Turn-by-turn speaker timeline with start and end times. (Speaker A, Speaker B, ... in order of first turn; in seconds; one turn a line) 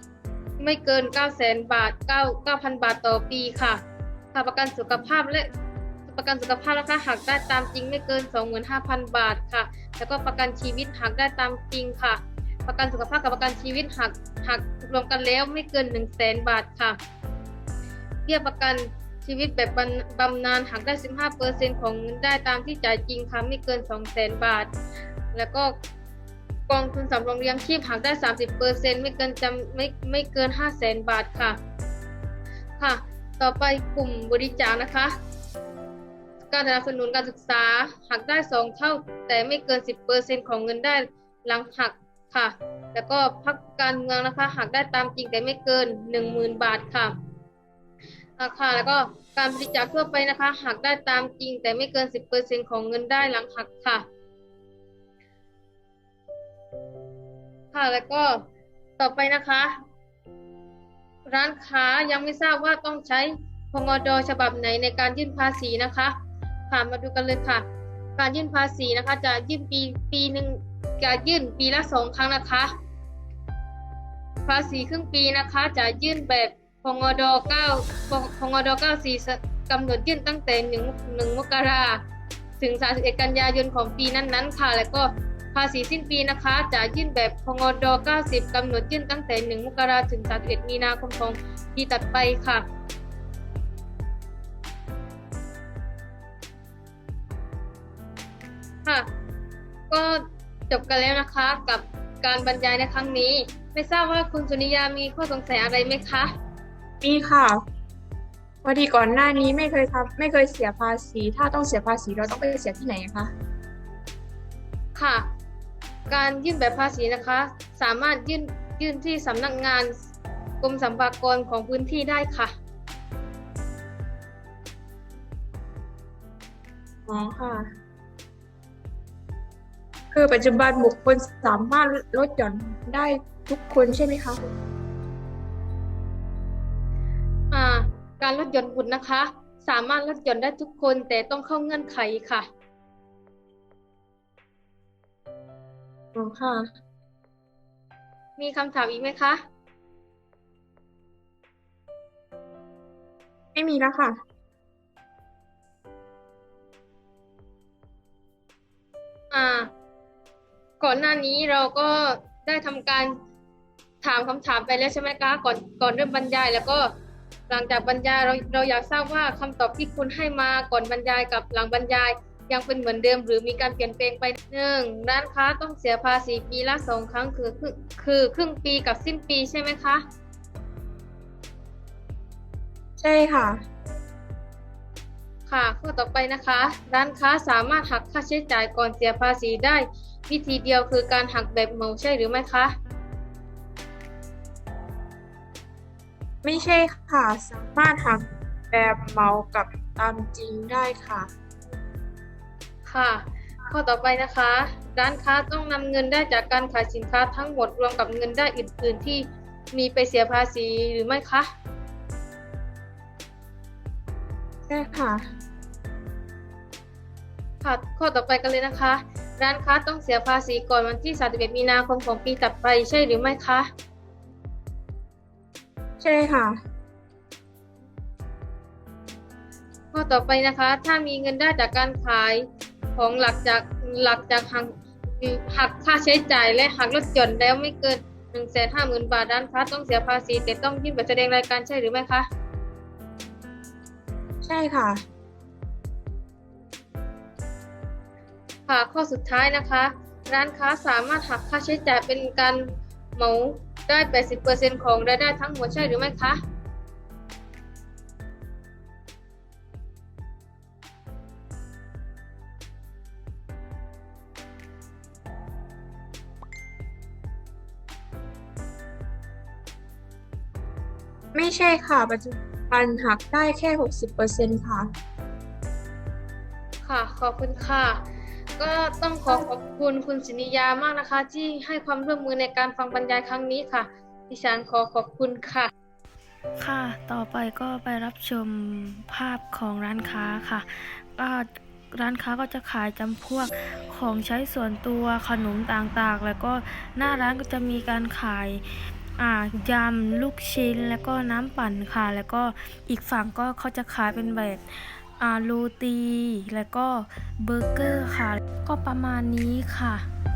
Speaker A: 0.6-3.8
Speaker A: 4.3-5.5
Speaker A: 6.1-17.0
Speaker A: 18.3-24.7
Speaker A: 25.3-25.7
Speaker A: 26.7-31.6
Speaker A: 32.8-35.1
Speaker A: 36.5-47.1
Speaker A: 48.4-54.0
Speaker A: 57.7-58.4
Speaker A: 59.0-59.7
Speaker A: 61.3-66.1
Speaker A: 66.7-67.6
Speaker A: 68.2-72.7
Speaker A: 74.5-82.0
Speaker A: 82.6-92.7
Speaker A: 99.9-106.3
Speaker B: 107.0-107.6
Speaker B: 108.6-113.3
Speaker A: 115.0-115.3
Speaker A: 116.1-119.9
Speaker A: 120.6-122.5
Speaker B: 127.1-127.7
Speaker B: 130.1-134.4
Speaker A: 137.5-142.5
Speaker B: 146.2-146.7
Speaker A: 148.4-149.4
Speaker B: 153.6-154.2
Speaker A: 159.3-159.7
Speaker A: 160.8-163.1
Speaker A: 164.0-166.9
Speaker A: 167.5-180.0
Speaker B: 183.0-183.6
Speaker A: 185.5-192.7
Speaker B: 196.4-201.3
Speaker A: 202.9-211.5
Speaker B: 214.7-215.2
Speaker A: 217.6-223.7
Speaker B: 226.0-226.6
Speaker A: 229.9-232.4
Speaker A: 233.0-242.3
Speaker B: 244.4-245.0
Speaker A: 248.7-256.4
Speaker B: 271.3-274.9
Speaker A: 276.8-278.1
Speaker A: 278.6-285.7
Speaker C: 286.6-298.7
Speaker C: 299.2-310.1